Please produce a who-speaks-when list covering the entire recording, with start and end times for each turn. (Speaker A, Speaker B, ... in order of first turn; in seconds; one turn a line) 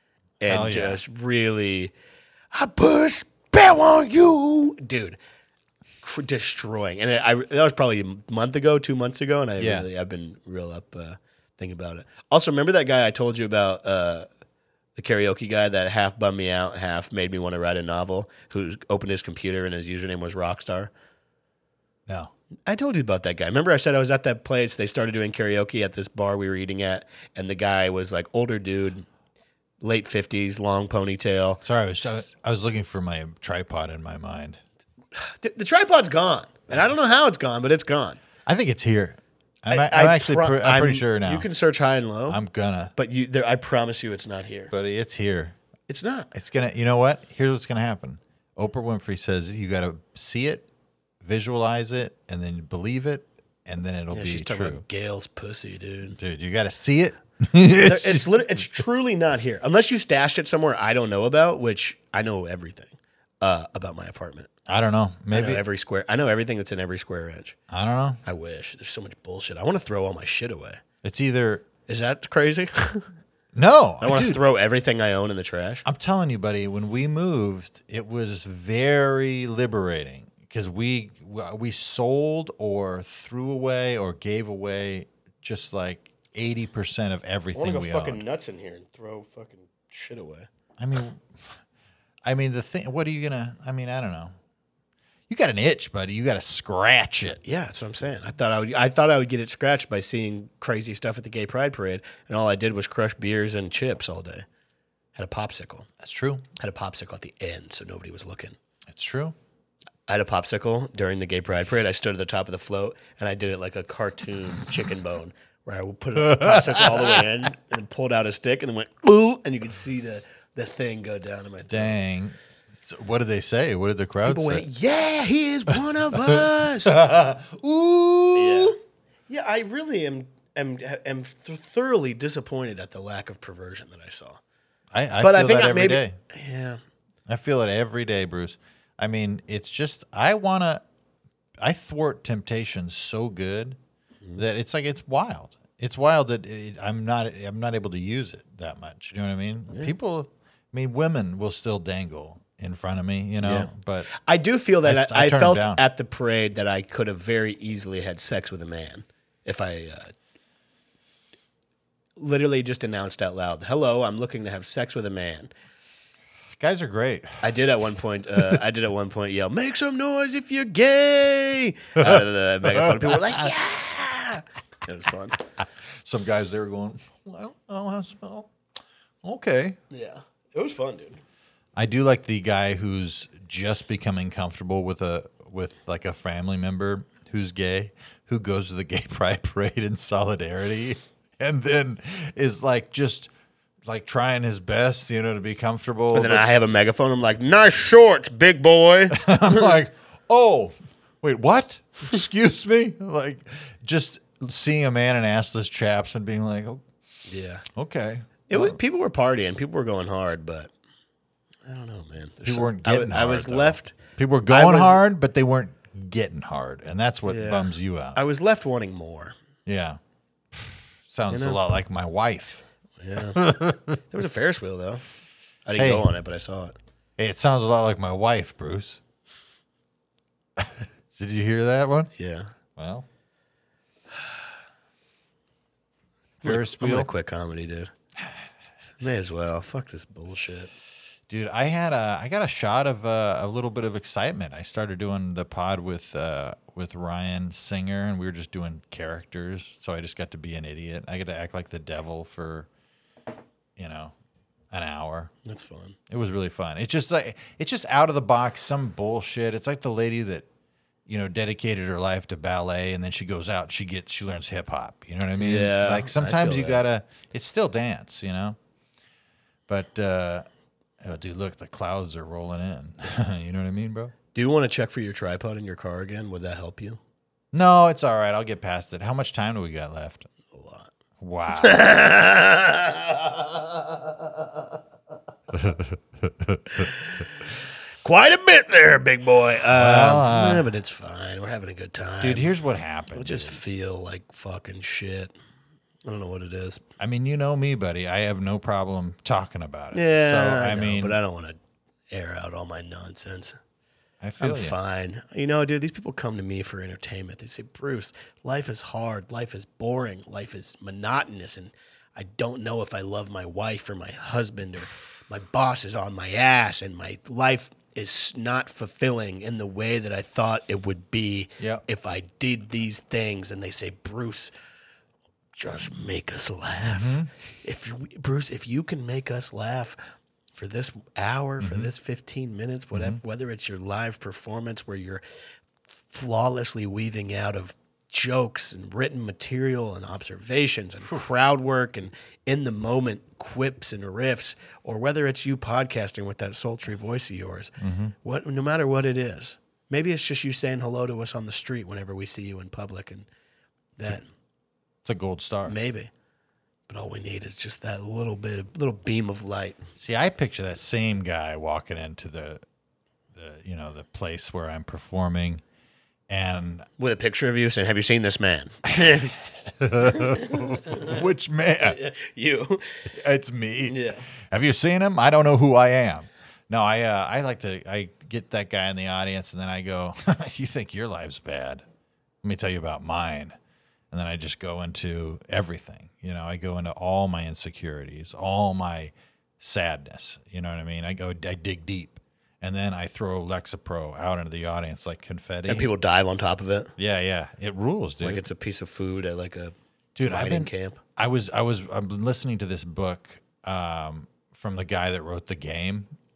Speaker A: 0.4-1.9
Speaker B: 0.5-1.0
Speaker A: 2.5-5.2
Speaker A: 6.0-14.3
Speaker B: 9.6-9.9
Speaker A: 15.0-20.9
Speaker A: 22.7-29.1
Speaker A: 29.8-32.3
Speaker B: 31.6-34.6
Speaker A: 35.1-38.2
Speaker B: 38.5-41.5
Speaker A: 39.7-42.4
Speaker B: 42.3-42.9
Speaker A: 43.0-44.7
Speaker B: 44.7-45.6
Speaker A: 45.9-46.3
Speaker B: 46.3-50.7
Speaker B: 51.2-54.8
Speaker A: 54.1-56.2
Speaker B: 56.2-58.6
Speaker A: 57.8-64.5
Speaker B: 64.7-65.6
Speaker A: 65.3-67.6
Speaker B: 67.7-68.2
Speaker A: 68.2-70.8
Speaker B: 71.0-71.7
Speaker A: 71.9-73.1
Speaker B: 73.5-74.4
Speaker A: 74.0-75.8
Speaker B: 75.8-88.2
Speaker A: 87.5-90.5
Speaker B: 90.8-91.3
Speaker B: 92.2-94.3
Speaker B: 95.3-97.4
Speaker A: 97.4-104.5
Speaker A: 105.2-105.9
Speaker B: 106.0-106.4
Speaker A: 106.6-108.6
Speaker B: 108.9-109.3
Speaker A: 110.1-122.0
Speaker B: 116.2-117.2
Speaker B: 121.7-124.6
Speaker A: 124.2-127.0
Speaker B: 126.2-128.7
Speaker A: 128.3-128.8
Speaker A: 129.3-134.4
Speaker B: 134.9-136.2
Speaker A: 135.2-136.8
Speaker B: 137.3-140.8
Speaker B: 141.6-143.8
Speaker B: 144.4-154.1
Speaker A: 153.4-160.1
Speaker B: 154.8-155.8
Speaker A: 162.2-165.5
Speaker B: 166.6-167.4
Speaker A: 167.4-175.4
Speaker B: 172.0-173.5
Speaker B: 175.6-178.5
Speaker B: 179.2-179.8
Speaker A: 179.9-181.2
Speaker B: 181.8-193.3
Speaker B: 193.8-196.4
Speaker A: 196.1-199.8
Speaker B: 199.1-206.8
Speaker A: 207.3-207.7
Speaker B: 207.7-208.8
Speaker A: 208.5-210.7
Speaker A: 211.7-214.0
Speaker B: 212.4-218.2
Speaker A: 214.5-215.0
Speaker A: 217.3-219.3
Speaker B: 219.7-220.0
Speaker B: 220.5-222.6
Speaker A: 221.3-221.6
Speaker A: 223.0-223.4
Speaker B: 223.2-224.0
Speaker A: 224.1-225.1
Speaker A: 225.7-226.7
Speaker B: 225.8-226.1
Speaker B: 227.2-229.0
Speaker B: 230.6-232.1
Speaker A: 232.2-232.5
Speaker B: 232.8-233.1
Speaker B: 236.4-237.1
Speaker A: 236.4-237.9
Speaker A: 239.0-240.7
Speaker B: 241.3-252.7
Speaker B: 253.8-254.1
Speaker B: 254.7-255.3
Speaker A: 255.4-256.0
Speaker B: 256.1-260.5
Speaker B: 261.1-268.6
Speaker A: 265.4-266.8
Speaker B: 269.7-270.4
Speaker B: 271.0-274.1
Speaker A: 274.3-277.0
Speaker B: 277.5-280.3
Speaker A: 280.5-280.9
Speaker B: 281.2-281.9
Speaker A: 281.5-284.6
Speaker B: 285.5-286.9
Speaker A: 286.7-292.5
Speaker B: 289.7-290.7
Speaker B: 292.2-293.6
Speaker A: 293.1-295.3
Speaker A: 296.1-296.8
Speaker B: 297.0-301.2
Speaker A: 299.9-301.6
Speaker A: 302.1-303.6
Speaker B: 304.2-304.8
Speaker A: 304.4-324.5
Speaker B: 321.6-321.9
Speaker A: 325.6-330.0
Speaker B: 326.8-327.3
Speaker A: 330.5-335.2
Speaker B: 331.6-331.9
Speaker B: 332.9-333.2
Speaker A: 336.1-353.3
Speaker B: 347.8-348.1
Speaker A: 354.0-354.3
Speaker B: 355.0-355.8
Speaker A: 355.7-356.1
Speaker A: 356.9-359.9
Speaker B: 360.0-362.6
Speaker B: 363.3-365.6
Speaker B: 366.3-366.9
Speaker A: 367.0-369.4
Speaker B: 369.0-372.0
Speaker A: 370.1-371.1
Speaker A: 371.8-373.1
Speaker B: 373.1-381.9
Speaker A: 373.9-374.2
Speaker B: 382.4-383.6
Speaker B: 384.1-395.9
Speaker A: 395.7-396.9
Speaker B: 397.0-398.4
Speaker A: 398.2-399.7
Speaker B: 400.1-406.1
Speaker A: 400.3-401.0